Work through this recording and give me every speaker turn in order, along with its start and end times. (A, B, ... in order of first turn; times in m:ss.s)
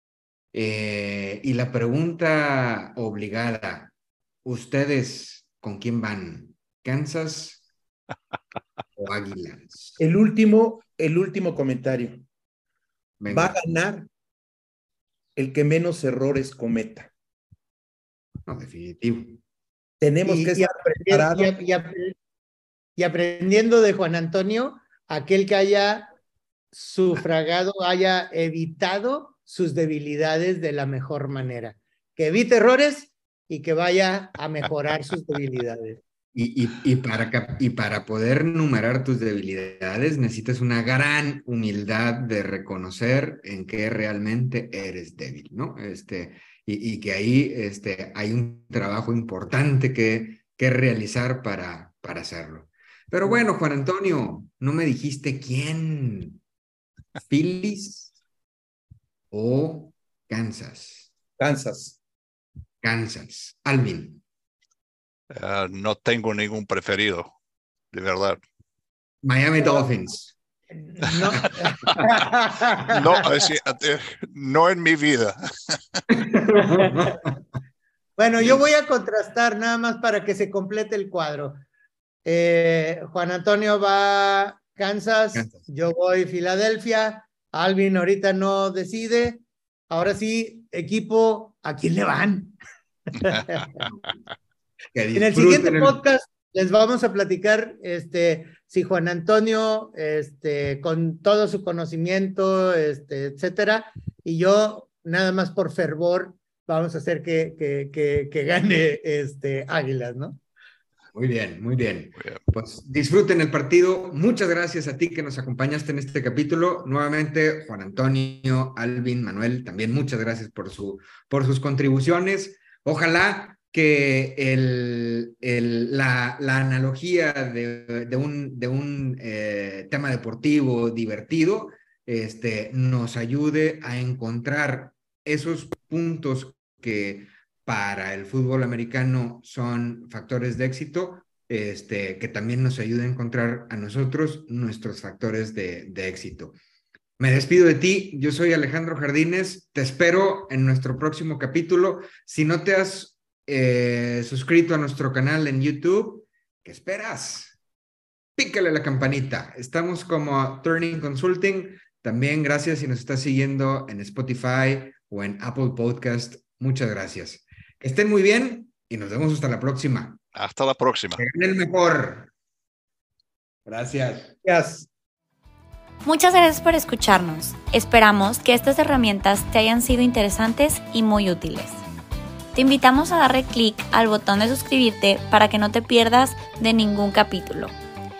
0:00.5-0:03.9 A
0:04.4-0:07.6 A
0:09.0-0:10.0 A
0:10.0-0:12.2 B
0:13.2-0:13.6 A
0:13.3-0:14.1 B
0:15.4-0:17.1 B
0:18.5-0:19.4 A
0:20.0-0:21.5 B
0:20.2-0:22.2 C
0:23.0-0:26.1 C
0:26.7-0:36.0 C
0:36.3-0:56.4 A
0:57.2-0:58.1 A
0:59.3-1:01.1 A
1:01.4-1:02.0 B
1:02.8-1:04.2 A
1:05.3-1:07.3 D
1:07.9-1:08.4 D
1:09.2-1:10.3 A
1:10.8-1:13.3 C
1:11.4-1:12.1 A
1:12.9-1:16.0 D
1:16.1-1:17.3 A
1:16.6-1:17.1 C
1:18.2-1:21.6 C
1:22.2-1:32.6 C
1:33.2-1:33.8 C
1:34.9-1:36.0 A
1:35.1-1:50.4 C
1:51.1-2:26.5 A
2:27.2-2:37.6 A
2:38.4-2:50.2 A
2:50.3-2:51.2 D
2:51.2-2:52.3 A
2:53.6-2:54.3 A
2:54.4-2:54.9 B
2:56.0-3:01.8 E
3:02.5-3:07.7 E